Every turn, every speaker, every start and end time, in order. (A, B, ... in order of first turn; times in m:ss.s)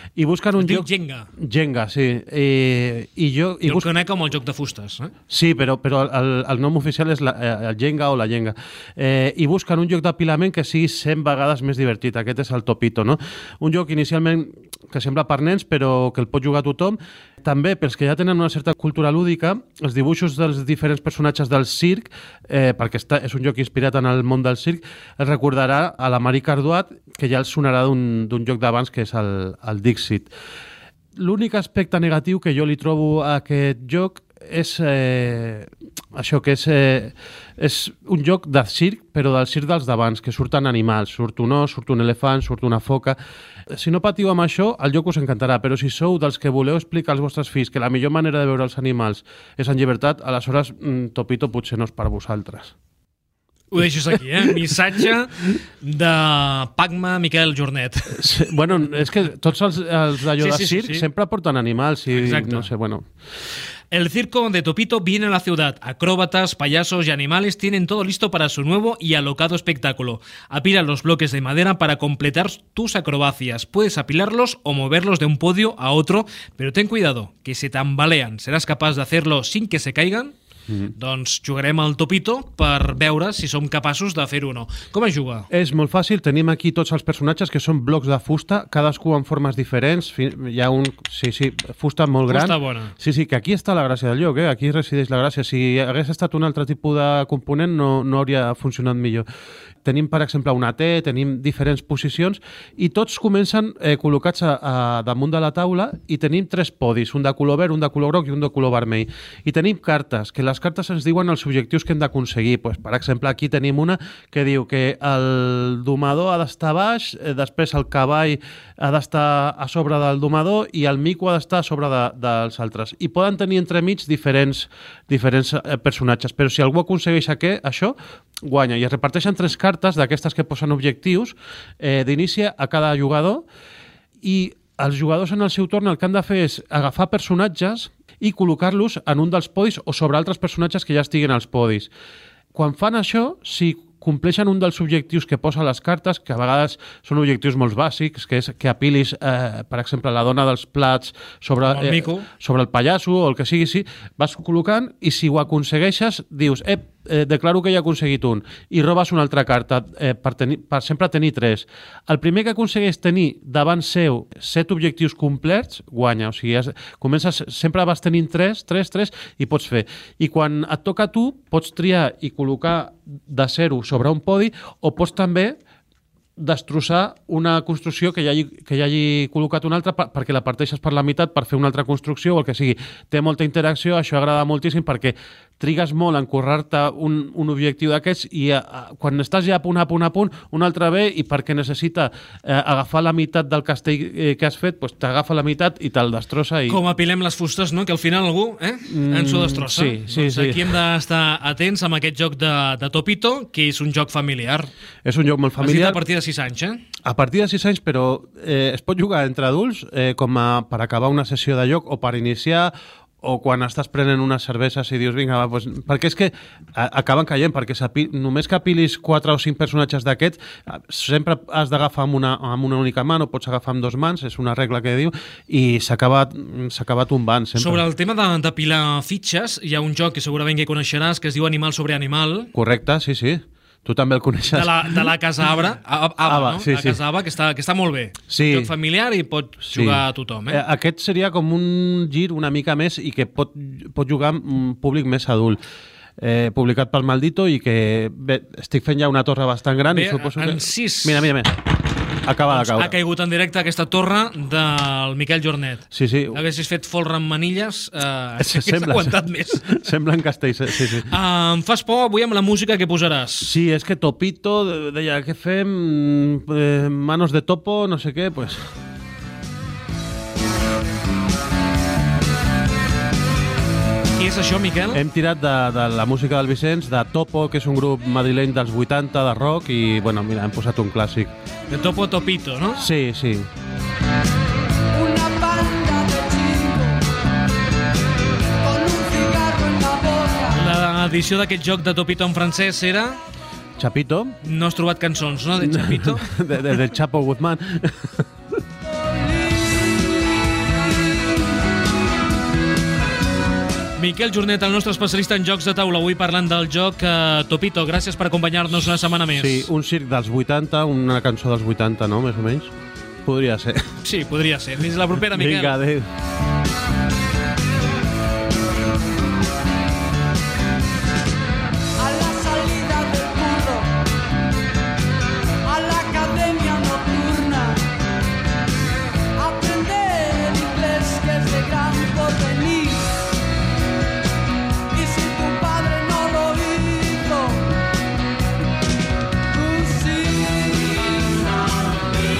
0:00.2-0:03.9 A
0:00.6-0:01.3 B
0:03.6-0:05.1 B
0:05.3-0:30.3 A
0:31.2-0:43.2 A
0:43.7-0:52.7 A
0:53.7-0:58.3 B
0:58.1-1:03.0 A
1:00.4-1:01.1 B
1:02.1-1:02.7 B
1:03.9-1:20.3 B
1:21.0-1:25.5 B
1:25.5-1:39.2 A
1:32.3-1:32.9 B
1:39.8-2:13.4 A
2:14.2-2:21.9 A
2:22.5-2:55.6 A
2:31.7-2:32.3 B
2:56.4-3:16.8 A
3:16.7-3:24.7 B
3:18.9-3:20.8 A
3:25.0-3:26.0 A
3:25.6-3:26.8 B
3:27.0-3:47.8 A
3:47.6-3:52.5 B
3:52.5-3:55.1 A
3:54.5-4:00.6 B
3:56.2-3:57.0 A
3:58.3-3:58.7 A
3:59.6-4:05.6 A
4:06.2-4:11.6 A
4:09.9-4:11.3 B
4:12.2-4:13.0 A
4:12.5-4:19.8 B
4:15.9-4:16.4 A
4:18.4-4:21.1 A
4:21.0-4:23.5 B
4:23.4-4:28.6 A
4:34.2-4:35.0 B
4:34.9-4:41.3 A
4:41.7-4:42.8 B
4:42.8-4:43.5 A
4:44.9-4:47.1 C
4:48.6-4:50.6 C
4:50.5-4:53.2 B
4:53.8-4:54.4 A
4:54.4-4:56.3 B
4:55.6-4:58.2 A
5:04.0-5:09.7 B
5:09.3-5:12.7 A
5:13.2-5:13.8 A
5:14.0-5:15.8 B
5:15.3-5:16.0 A
5:22.0-5:24.0 C
5:25.6-5:28.0 C
5:29.4-5:33.2 C
5:34.9-5:37.8 C
5:39.5-5:42.0 C